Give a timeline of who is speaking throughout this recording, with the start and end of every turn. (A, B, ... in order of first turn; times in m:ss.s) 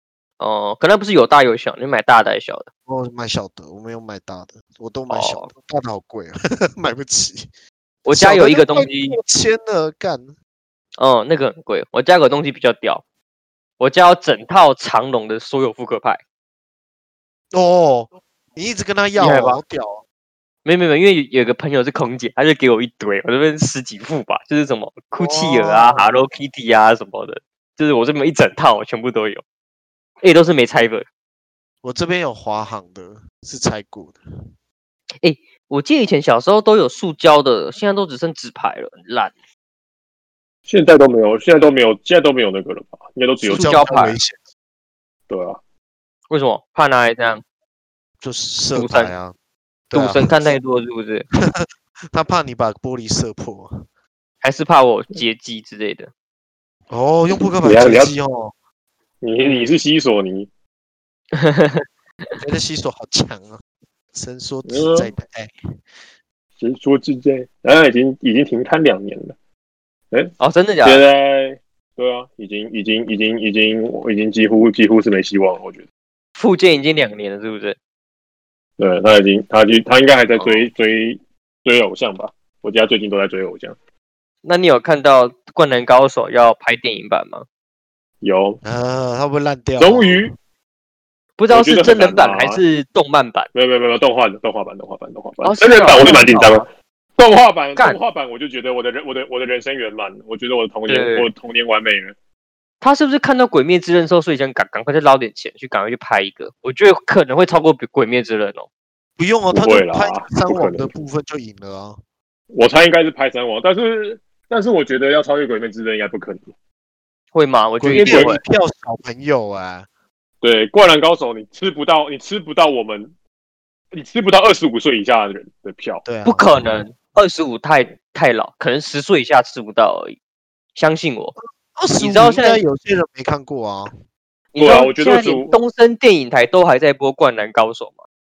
0:00.4-0:02.7 A
0:02.9-0:07.5 B
0:05.1-0:05.5 A
0:08.0-0:09.2 A
0:08.1-0:10.3 B
0:11.0-0:13.0 A
0:13.8-0:16.2 A
0:17.5-0:20.0 B
0:19.2-0:19.6 A
0:20.6-0:29.4 A
0:25.2-0:26.1 B
0:30.2-0:31.0 A
0:31.8-0:34.2 B
0:35.2-0:39.3 A
0:40.7-0:43.8 C
0:43.4-0:44.2 A
0:43.5-0:44.4 B
0:45.3-0:45.6 C
0:46.3-0:47.4 A
0:48.2-0:49.3 B
0:48.7-0:49.1 A
0:49.9-0:50.5 B
0:49.9-0:51.2 A
0:51.4-0:53.8 B
0:54.4-0:56.1 A
0:56.9-0:58.5 B
0:57.6-0:58.1 C
0:59.2-1:00.5 C
0:59.4-0:59.7 A
1:01.3-1:02.3 A
1:02.4-1:03.6 B
1:04.1-1:05.8 B
1:04.6-1:05.1 C
1:06.6-1:09.3 C
1:10.1-1:15.8 C
1:10.4-1:11.0 A
1:16.4-1:17.8 A
1:18.8-1:23.8 C
1:20.4-1:20.7 A
1:24.4-1:27.4 A
1:28.2-1:28.6 C
1:28.6-1:30.3 B
1:29.8-1:30.3 C
1:31.4-1:33.5 A
1:31.5-1:32.6 C
1:33.5-1:42.1 C
1:35.4-1:36.6 A
1:40.9-1:41.3 A
1:42.8-1:48.7 A
1:49.2-1:52.0 B
1:49.5-1:50.9 C
1:52.5-1:56.5 C
1:57.3-1:58.4 A
1:57.8-1:59.9 B
1:57.9-1:58.4 C
2:00.4-2:03.1 C
2:03.9-2:06.0 C
2:06.0-2:06.8 B
2:06.2-2:10.2 A
2:10.8-2:11.3 A
2:11.7-2:13.9 B
2:12.0-2:12.6 A
2:14.5-2:18.0 A
2:14.6-2:15.6 C